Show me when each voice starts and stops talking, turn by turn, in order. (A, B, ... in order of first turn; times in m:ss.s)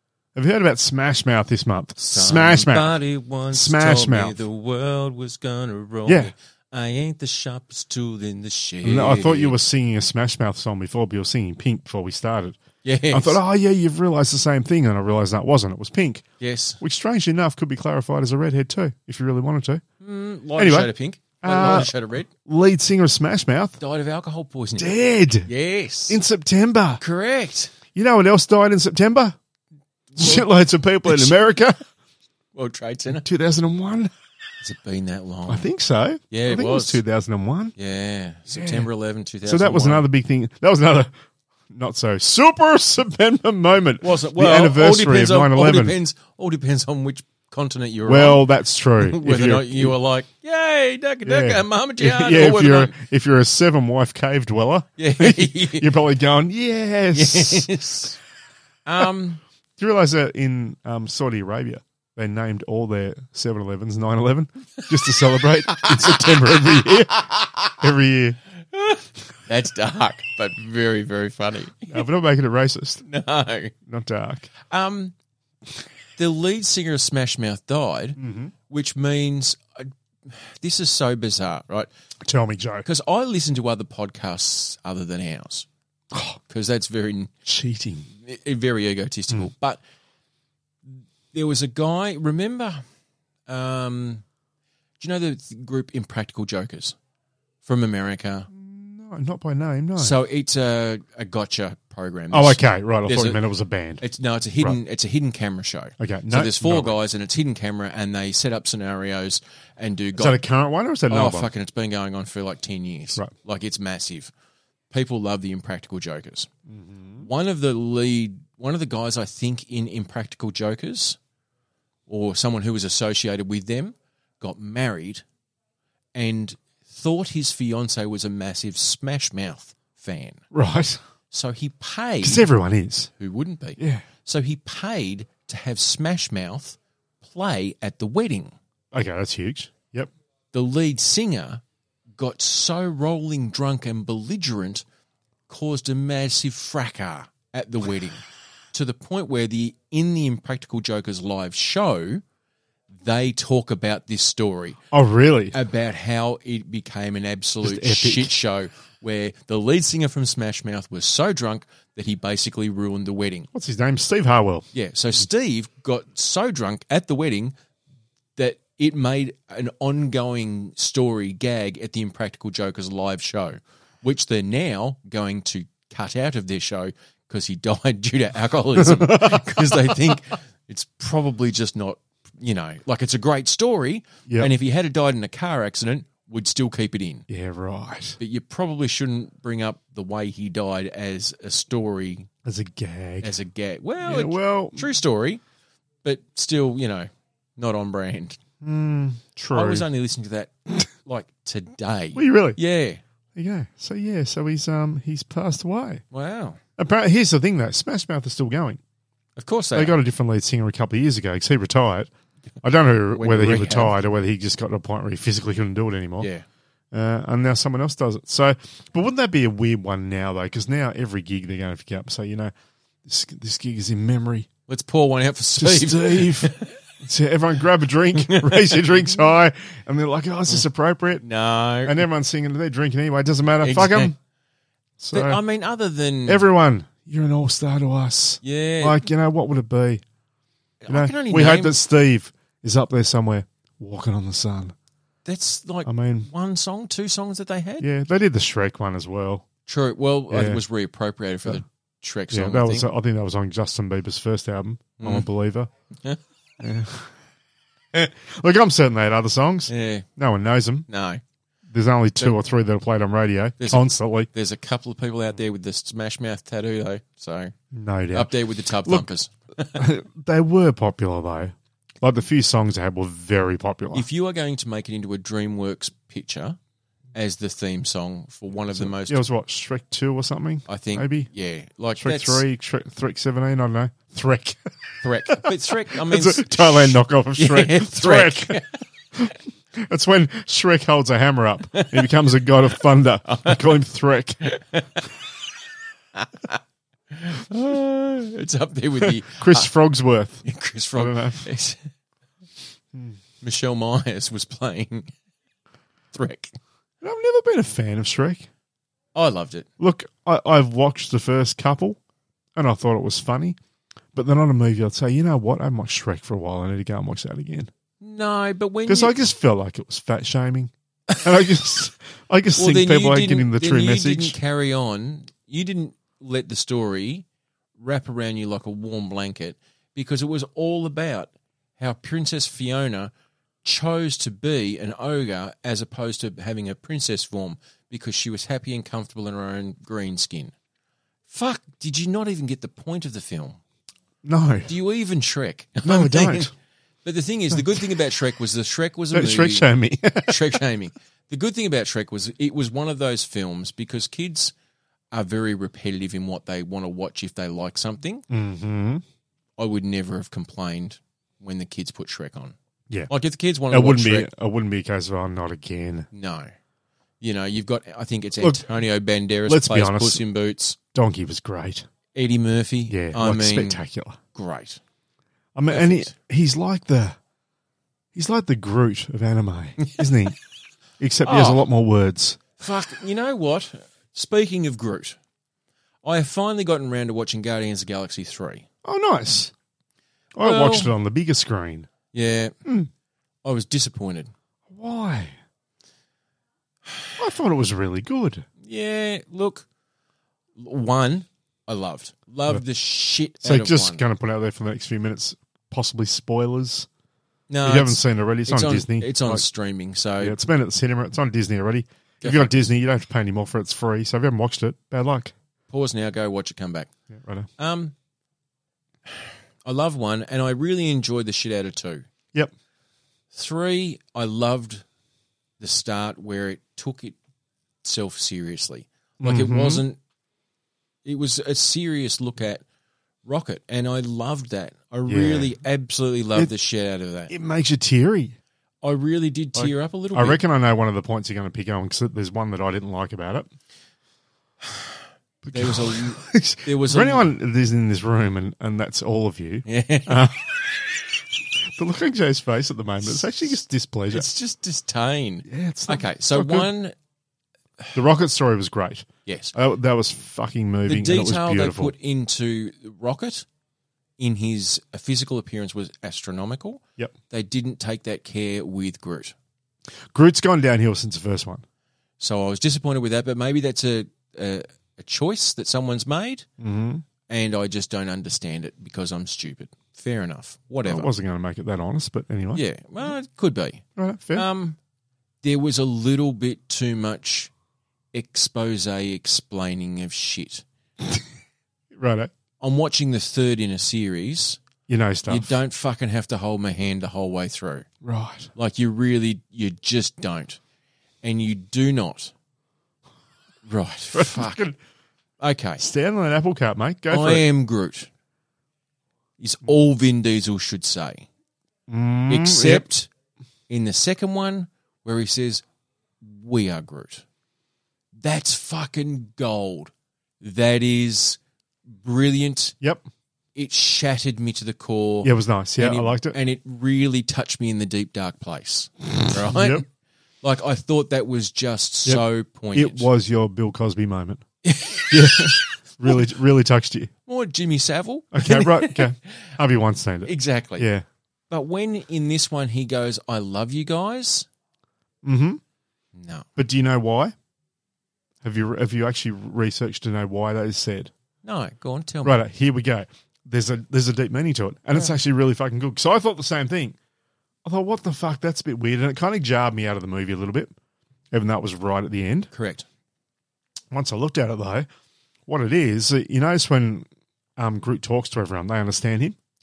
0:00.3-0:03.0 A
0:02.0-0:09.6 B
0:03.5-0:04.4 A
0:06.1-0:06.3 A
0:08.8-0:12.6 A
0:12.8-0:13.4 B
0:13.1-0:16.2 A
0:16.4-0:16.8 B
0:16.8-0:19.8 A
0:20.0-0:22.3 B
0:20.6-0:23.8 A
0:23.8-0:26.2 B
0:24.8-0:25.5 A
0:26.1-0:27.0 A
0:27.0-0:27.7 B
0:27.9-0:29.4 A
0:30.1-0:30.5 B
0:30.2-0:31.8 A
0:31.0-0:31.4 B
0:32.5-0:33.2 B
0:33.2-0:34.1 A
0:34.6-0:35.6 B
0:35.5-0:37.7 A
0:36.3-0:37.0 B
0:37.8-0:40.1 B
0:38.5-0:38.9 A
0:39.4-0:41.1 A
0:41.7-0:46.0 A
0:44.0-0:48.5 B
0:48.1-0:50.0 A
0:49.0-0:52.9 B
0:51.2-0:57.7 A
0:55.0-0:55.9 B
0:57.1-0:58.2 B
0:58.8-0:59.4 B
0:59.8-1:07.2 A
1:05.7-1:07.8 B
1:07.8-1:08.4 A
1:08.7-1:12.0 B
1:11.9-1:13.0 A
1:13.0-1:13.7 B
1:13.8-1:14.5 A
1:14.6-1:15.1 B
1:16.2-1:21.9 B
1:18.2-1:18.5 A
1:22.2-1:22.8 A
1:22.8-1:25.7 B
1:26.1-1:26.4 A
1:26.5-1:27.3 B
1:27.4-1:28.1 A
1:28.1-1:29.8 B
1:30.9-1:32.8 B
1:33.5-1:34.2 B
1:35.0-1:37.0 B
1:37.6-1:38.5 B
1:38.5-1:40.2 A
1:40.0-1:43.4 B
1:42.3-1:44.0 A
1:44.0-1:50.4 B
1:46.0-1:47.0 A
1:50.2-1:51.5 A
1:51.1-1:54.3 B
1:54.9-1:56.5 B
1:56.7-1:57.3 A
1:57.2-2:01.2 B
2:02.1-2:05.2 B
2:06.1-2:10.4 B
2:10.5-2:11.0 A
2:11.3-2:12.5 B
2:12.2-2:13.1 A
2:13.2-2:18.5 B
2:13.8-2:14.0 A
2:18.9-2:20.1 A
2:20.5-2:21.6 B
2:22.2-2:24.8 B
2:25.5-2:28.2 B
2:28.7-2:32.2 B
2:33.0-2:34.8 B
2:34.9-2:35.6 A
2:35.5-2:43.5 B
2:37.6-2:38.3 A
2:43.5-2:44.7 A
2:44.7-2:47.5 B
2:48.4-3:07.2 B
2:58.8-3:00.0 A
3:04.3-3:04.5 A
3:07.3-3:08.2 A
3:08.2-3:12.3 B
3:12.4-3:13.3 A
3:13.2-3:15.4 B
3:14.0-3:14.9 A
3:16.0-3:18.4 B
3:18.6-3:19.8 A
3:19.5-3:23.0 B
3:22.1-3:22.6 A
3:23.3-3:26.0 A
3:26.1-3:26.6 B
3:26.8-3:28.8 A
3:29.4-3:30.0 B
3:29.7-3:32.1 A
3:32.6-3:36.3 A
3:33.1-3:34.0 B
3:36.2-3:36.4 B
3:36.9-3:42.5 A
3:43.0-3:44.5 A
3:44.7-3:46.8 B
3:45.6-3:51.2 A
3:48.1-3:49.0 B
3:51.2-3:52.0 B
3:51.8-3:54.2 A
3:53.6-3:54.1 B
3:55.0-3:55.4 A
3:55.1-3:56.5 B
3:56.3-4:00.0 A
3:58.4-3:59.1 B
4:00.8-4:01.8 B
4:00.9-4:04.7 A
4:05.2-4:07.9 B
4:05.8-4:06.3 A
4:07.8-4:09.4 A
4:09.6-4:12.9 B
4:10.3-4:10.6 A
4:12.3-4:15.7 A
4:15.0-4:15.3 B
4:16.6-4:17.1 A
4:17.9-4:20.9 A
4:19.7-4:20.0 B
4:20.9-4:21.2 B
4:21.7-4:24.3 A
4:23.6-4:27.5 B
4:27.7-4:29.1 A
4:28.1-4:29.8 B
4:29.7-4:34.1 A
4:33.9-4:36.6 B
4:37.1-4:39.2 B
4:38.7-4:41.3 A
4:40.7-4:42.4 B
4:42.0-4:44.6 A
4:45.0-4:48.8 B
4:45.3-4:48.6 A
4:49.1-4:54.4 A
4:51.7-4:52.1 B
4:53.2-4:53.8 B
4:54.4-4:55.1 B
4:56.1-4:59.7 B
4:59.3-5:00.4 A
5:00.4-5:01.8 B
5:01.0-5:01.5 A
5:03.4-5:05.1 B
5:06.1-5:06.5 B
5:07.0-5:08.5 A
5:09.1-5:09.7 B
5:09.8-5:12.0 A
5:12.6-5:13.6 A
5:14.1-5:17.7 A
5:18.0-5:19.2 B
5:18.9-5:24.4 A
5:22.6-5:27.2 B
5:27.8-5:33.1 B
5:33.6-5:40.5 B
5:41.3-5:43.6 B
5:44.2-5:44.7 A
5:44.7-5:46.5 B
5:45.8-5:46.5 A
5:47.0-5:49.7 B
5:47.5-5:47.9 A
5:49.1-5:50.6 A
5:50.2-5:54.5 B
5:55.1-5:58.2 B
5:58.3-5:59.0 A
5:59.6-6:02.5 B
6:03.1-6:04.3 B
6:03.7-6:06.1 A
6:06.1-6:06.5 B
6:07.2-6:10.8 B
6:08.4-6:08.7 A
6:09.5-6:10.2 A
6:10.9-6:11.8 A
6:12.1-6:13.8 B
6:12.9-6:14.2 A
6:14.3-6:14.8 B
6:15.5-6:17.2 A
6:15.7-6:16.1 B
6:18.1-6:20.4 A
6:19.8-6:20.0 B
6:21.0-6:22.4 A
6:21.2-6:21.6 B
6:22.6-6:25.2 B
6:26.0-6:28.6 B
6:28.8-6:29.5 A
6:30.4-6:31.9 A
6:30.4-6:30.9 B
6:32.1-6:32.5 B
6:32.6-6:32.9 A
6:33.4-6:34.3 B
6:34.7-6:35.3 A
6:37.2-6:38.4 A
6:38.6-6:39.6 B
6:40.6-6:44.0 B
6:43.4-6:46.9 A
6:47.5-6:50.4 B
6:47.6-6:49.4 A
6:50.2-6:55.3 A
6:52.2-6:52.5 B
6:55.7-6:56.9 B
6:57.1-6:57.5 A
6:57.6-6:57.9 B
6:59.1-7:02.0 B
7:03.3-7:04.8 B
7:05.6-7:07.2 B
7:07.8-7:10.0 B
7:09.2-7:09.8 A
7:11.0-7:12.6 B
7:13.2-7:17.3 B
7:15.1-7:15.5 A
7:17.3-7:18.4 A
7:18.8-7:20.4 B
7:19.6-7:23.5 A
7:25.4-7:34.3 A
7:25.5-7:27.3 B
7:29.6-7:30.3 B
7:34.1-7:36.9 B
7:35.5-7:36.7 A
7:37.9-7:41.9 A
7:39.2-7:39.5 B
7:40.8-7:43.4 B
7:44.2-7:49.3 B
7:50.1-7:51.6 A
7:52.2-7:56.4 B
7:56.6-7:57.0 A
7:57.3-8:01.1 B
8:00.8-8:02.6 A
8:02.5-8:03.8 B
8:04.0-8:04.5 A
8:04.3-8:04.8 B
8:05.4-8:07.5 B
8:08.1-8:10.6 B
8:11.9-8:12.3 A
8:12.6-8:14.6 B
8:14.9-8:15.6 A
8:15.3-8:17.9 B
8:18.0-8:18.5 A
8:18.6-8:20.6 B
8:21.2-8:22.3 B
8:23.6-8:24.6 B
8:24.1-8:24.8 A
8:25.4-8:25.8 B
8:25.8-8:27.4 A
8:27.1-8:28.1 B
8:29.4-8:31.3 B
8:31.9-8:32.8 A
8:32.3-8:33.1 B
8:33.7-8:35.6 B
8:36.2-8:37.2 B
8:38.2-8:41.4 B
8:42.0-8:42.8 B
8:43.5-8:49.8 B
8:45.2-8:46.4 A
8:49.3-8:49.8 A
8:50.4-8:53.1 B
8:52.7-8:54.4 A
8:54.6-8:55.7 B
8:55.1-8:57.1 A
8:57.3-8:59.5 B
8:58.3-9:01.0 A
9:00.2-9:00.9 B
9:01.5-9:04.5 B
9:05.2-9:05.6 A
9:06.1-9:06.5 B
9:06.6-9:07.3 A
9:08.4-9:11.1 A
9:11.4-9:12.4 B
9:12.2-9:17.0 A
9:17.6-9:20.7 A
9:21.3-9:22.5 A
9:22.5-9:22.8 B
9:23.9-9:24.9 A
9:25.5-9:29.4 A